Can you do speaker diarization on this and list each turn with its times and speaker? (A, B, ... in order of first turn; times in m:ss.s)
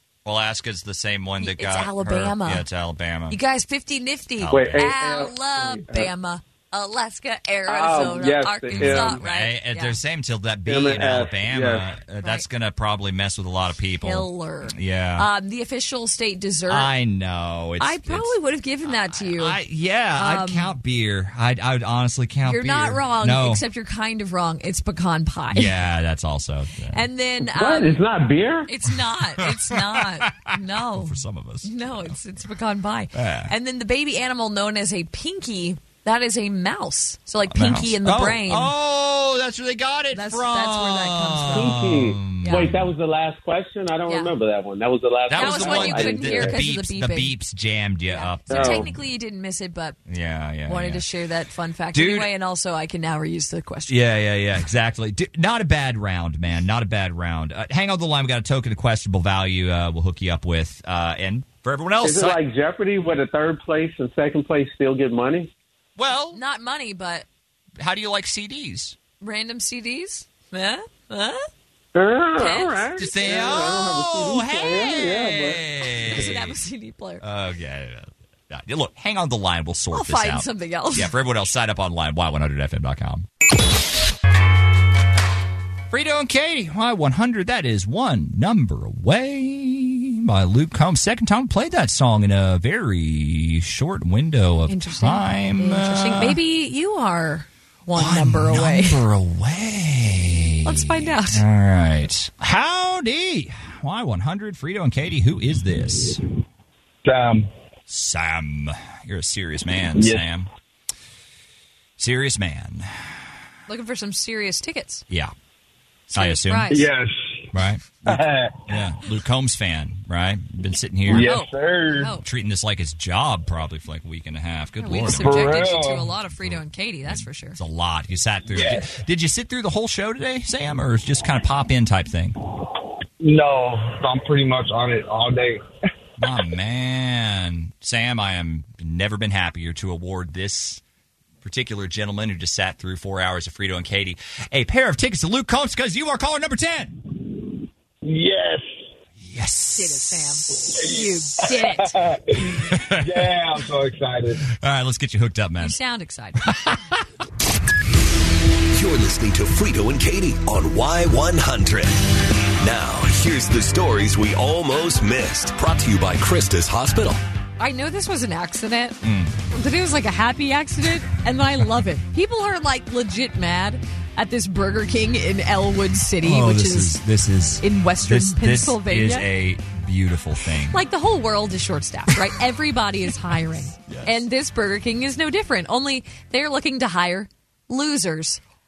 0:00.2-0:03.4 A
0:01.4-0:02.6 B
0:03.3-0:10.0 B
0:04.4-0:04.9 A
0:04.5-0:06.1 C
0:07.7-0:09.2 C
0:08.7-0:15.3 A
0:10.7-0:11.8 C
0:12.2-0:12.5 B
0:14.0-0:16.9 B
0:16.7-0:18.3 A
0:17.8-0:19.6 B
0:18.8-0:23.6 A
0:20.2-0:20.7 B
0:22.5-0:25.8 B
0:25.5-0:27.0 A
0:26.9-0:28.0 B
0:27.4-0:28.7 C
0:28.6-0:38.7 B
0:29.4-0:32.2 A
0:33.1-0:33.5 A
0:37.5-0:42.9 A
0:40.1-0:42.8 B
0:41.5-0:46.6 C
0:44.1-0:44.3 B
0:45.3-0:49.0 A
0:45.3-0:47.4 B
0:48.1-0:50.0 B
0:48.5-0:48.9 C
0:50.1-0:51.0 A
0:50.7-0:54.0 B
0:51.9-0:52.3 A
0:53.9-1:02.4 A
1:02.0-1:05.5 C
1:06.0-1:06.4 A
1:06.3-1:07.3 B
1:07.8-1:09.0 A
1:09.2-1:11.5 B
1:12.0-1:15.6 C
1:12.4-1:12.9 B
1:13.0-1:16.6 A
1:15.8-1:17.2 B
1:17.2-1:23.3 A
1:19.9-1:21.1 B
1:25.9-1:36.4 A
1:34.7-1:39.0 B
1:38.0-1:46.2 A
1:40.6-1:41.4 B
1:47.0-1:47.5 D
1:47.9-1:50.5 A
1:49.9-1:50.3 D
1:52.0-1:52.9 A
1:53.7-1:55.0 B
1:56.1-1:56.8 A
1:56.1-1:56.9 B
1:56.7-1:57.4 D
1:57.5-2:01.4 A
1:58.0-1:58.7 D
2:01.1-2:02.1 D
2:01.1-2:02.2 B
2:02.2-2:12.4 A
2:04.8-2:07.6 B
2:05.2-2:06.1 D
2:08.5-2:08.9 D
2:13.2-2:15.6 D
2:16.2-2:20.8 A
2:21.4-2:27.0 A
2:28.0-2:28.7 D
2:29.2-2:31.5 A
2:29.8-2:32.0 B
2:30.8-2:34.4 D
2:32.6-2:33.4 A
2:34.5-2:35.8 A
2:35.6-2:36.5 B
2:36.4-2:36.8 A
2:38.7-2:42.0 E
2:42.6-2:47.2 E
2:47.6-2:49.0 B
2:49.0-2:49.4 A
2:49.5-2:57.0 B
2:56.2-3:00.8 A
2:57.6-2:59.3 B
3:00.7-3:08.4 B
3:03.7-3:04.2 A